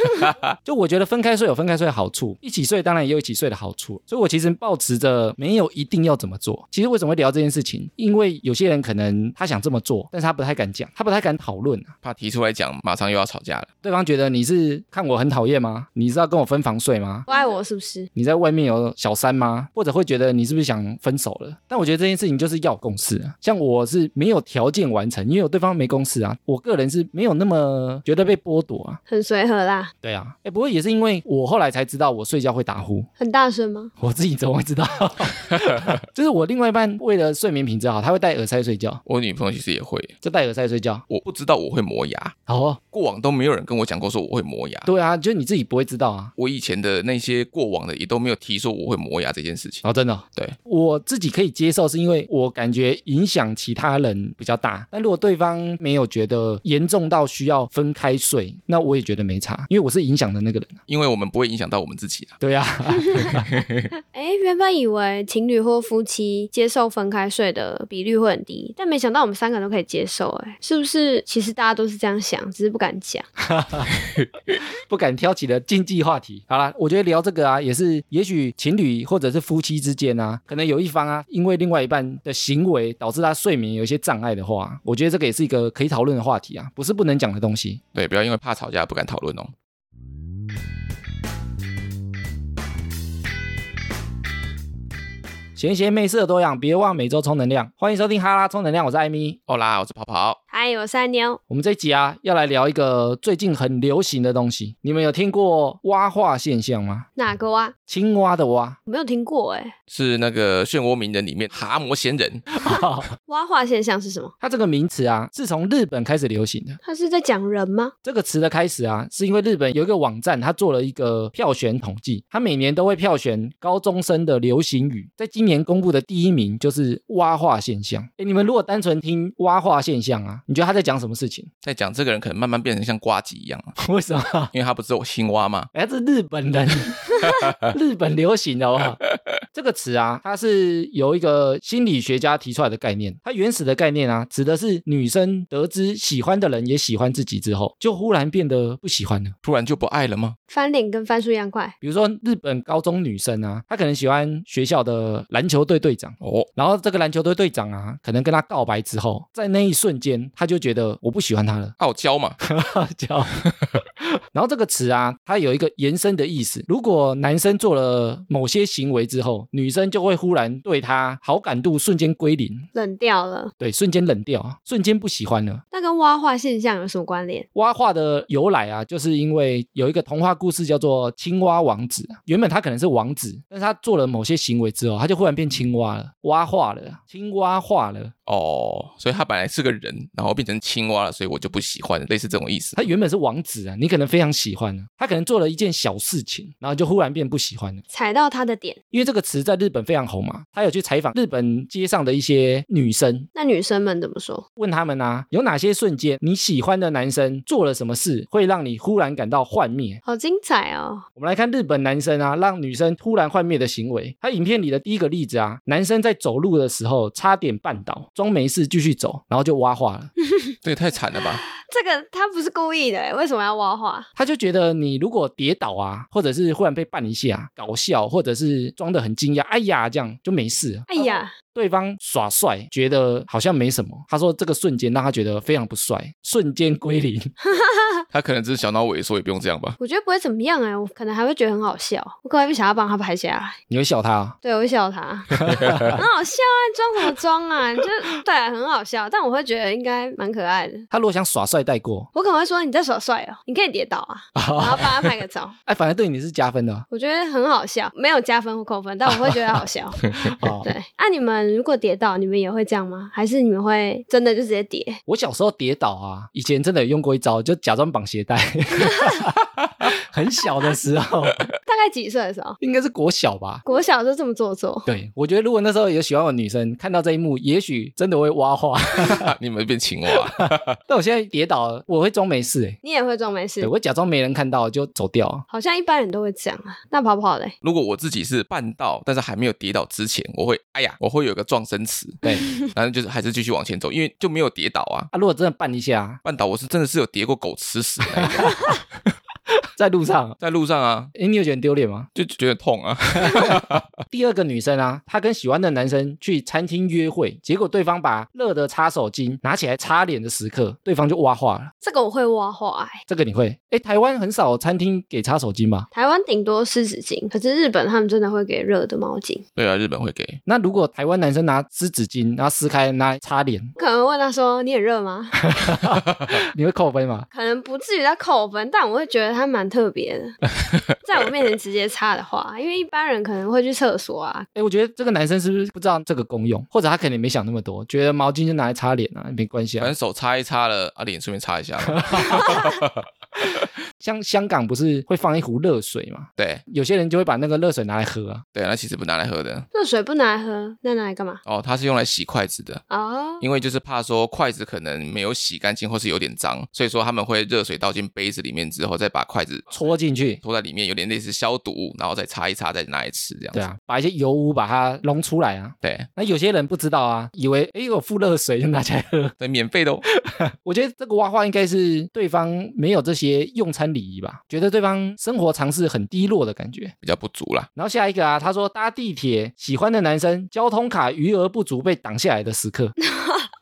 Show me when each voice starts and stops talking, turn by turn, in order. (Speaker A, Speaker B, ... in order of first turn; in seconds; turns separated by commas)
Speaker A: 0.1-0.5, Speaker B: 0.6-11.9, Speaker A: 12.0-13.7, Speaker B: 13.8-17.3, Speaker C: 17.3-18.1, Speaker B: 18.1-29.0, Speaker C: 29.1-29.9, Speaker B: 30.0-33.1, Speaker C: 33.2-33.9, Speaker B: 34.0-39.0, Speaker A: 39.0-40.1, Speaker B: 40.2-41.0, Speaker A: 41.1-42.4, Speaker B: 42.5-42.8, Speaker A: 42.9-44.9, Speaker B: 44.9-46.3, Speaker A: 46.4-49.8, Speaker B: 49.8-60.8, Speaker A: 60.9-62.4, Speaker B: 62.4-63.5, Speaker A: 63.3-63.9, Speaker C: 64.1-73.3, Speaker B: 73.4-73.9, Speaker B: 74.9-87.8, Speaker A: 87.9-89.5, Speaker B: 95.5-99.4, Speaker A: 99.5-100.4, Speaker C: 100.5-101.4, Speaker B: 101.5-107.1, Speaker C: 107.2-107.7, Speaker B: 107.9-108.8, Speaker C: 108.9-109.7, Speaker A: 109.9-112.5, Speaker B: 112.5-113.1, Speaker C: 113.3-114.3, Speaker B: 114.4-116.8, Speaker C: 116.8-117.9, Speaker B: 118.0-131.5, Speaker A: 131.6-133.8, Speaker B: 133.8-134.5, Speaker A: 134.5-135.7, Speaker B: 135.7-139.0, Speaker B: 139.5-149.3, Speaker A: 149.4-150.3, Speaker C: 150.5-151.7, Speaker B: 151.8-161.8, Speaker A: 156.2-156.5, Speaker A: 161.8-162.4, Speaker B: 162.4-163.4, Speaker B: 164.3-172.7, Speaker C: 172.7-173.5, Speaker B: 173.6-175.6, Speaker C: 175.7-177.5, Speaker B: 177.5-188.1, Speaker A: 188.3-192.8, Speaker B: 192.7-197.8, Speaker C: 197.9-198.8, Speaker B: 198.9-203.3, Speaker C: 203.3-204.4, Speaker B: 204.6-210.0, Speaker C: 210.0-211.1, Speaker B: 211.2-220.1, Speaker A: 220.6-221.4, Speaker C: 221.5-224.1, Speaker B: 224.2-237.3, Speaker C: 230.9-231.3, Speaker C: 237.4-238.0, Speaker A: 238.1-239.8, Speaker C: 239.8-243.6, Speaker B: 243.7-244.4, Speaker C: 244.4-250.9, Speaker B: 245.4-246.0, Speaker A: 245.4-246.0, Speaker B: 250.9-252.1, Speaker C: 252.1-255.6, Speaker B: 254.3-256.9, Speaker C: 256.9-265.0, Speaker B: 260.2-260.7, Speaker B: 265.1-271.5, Speaker C: 271.6-272.6, Speaker B: 272.6-273.6, Speaker C: 273.6-274.9, Speaker B: 274.9-279.3, Speaker A: 279.0-280.7, Speaker B: 280.3-282.8, Speaker C: 282.8-283.7, Speaker B: 283.6-285.4, Speaker C: 285.5-287.5, Speaker A: 287.6-295.1, Speaker B: 295.1-296.2, Speaker A: 296.2-298.6, Speaker B: 298.2-298.6, Speaker B: 299.8-300.4, Speaker A: 300.4-301.1, Speaker B: 301.1-302.1, Speaker A: 302.1-303.9, Speaker B: 304.1-311.7, Speaker C: 311.8-313.0, Speaker B: 313.1-315.9, Speaker C: 315.9-319.4, Speaker A: 319.6-320.4, Speaker B: 320.4-323.7, Speaker C: 323.8-325.5, Speaker B: 325.4-327.3, Speaker C: 327.3-330.4, Speaker C: 330.9-334.5, Speaker B: 334.5-339.9, Speaker A: 339.8-343.6, Speaker B: 342.1-342.6, Speaker B: 344.0-348.4, Speaker A: 346.4-346.6, Speaker A: 348.5-349.6, Speaker C: 349.7-351.4, Speaker A: 351.4-352.8, Speaker C: 352.9-353.4, Speaker A: 353.4-359.7, Speaker B: 359.7-360.4, Speaker A: 360.4-363.7, Speaker B: 363.5-369.3, Speaker A: 365.8-366.1, Speaker A: 369.4-370.0, Speaker B: 370.2-376.9, Speaker A: 377.0-377.7, Speaker B: 377.8-382.9, Speaker C: 383.0-383.5